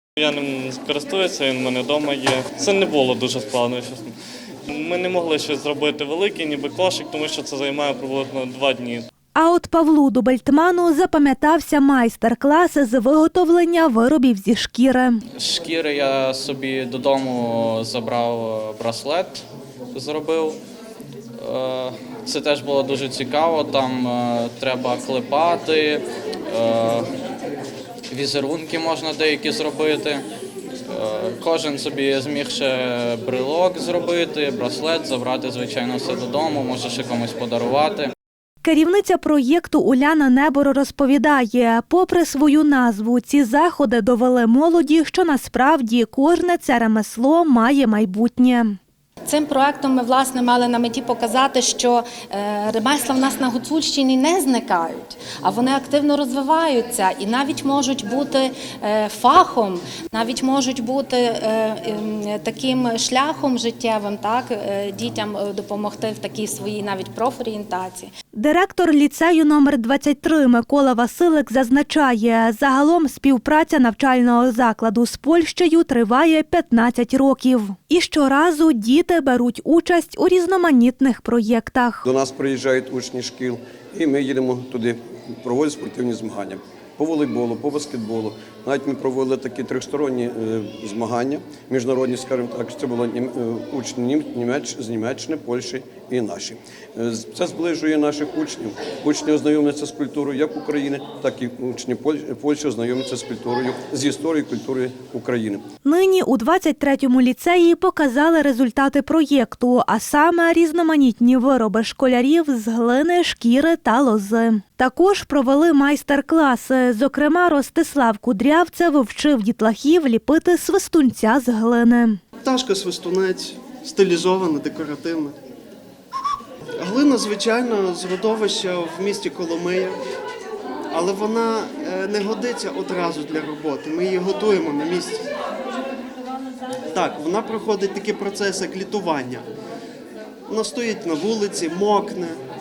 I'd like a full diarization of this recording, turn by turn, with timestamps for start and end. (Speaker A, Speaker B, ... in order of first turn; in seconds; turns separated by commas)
Speaker A: 0.2-4.1, Speaker A: 4.7-9.1, Speaker B: 9.4-15.2, Speaker C: 15.4-20.6, Speaker C: 21.4-27.1, Speaker C: 28.1-30.2, Speaker C: 30.9-38.1, Speaker B: 38.6-48.8, Speaker D: 49.2-68.1, Speaker B: 68.3-82.0, Speaker E: 82.0-105.6, Speaker B: 105.8-122.2, Speaker F: 122.4-125.3, Speaker F: 126.8-130.0, Speaker F: 130.9-135.2, Speaker F: 136.9-139.4, Speaker F: 140.5-142.4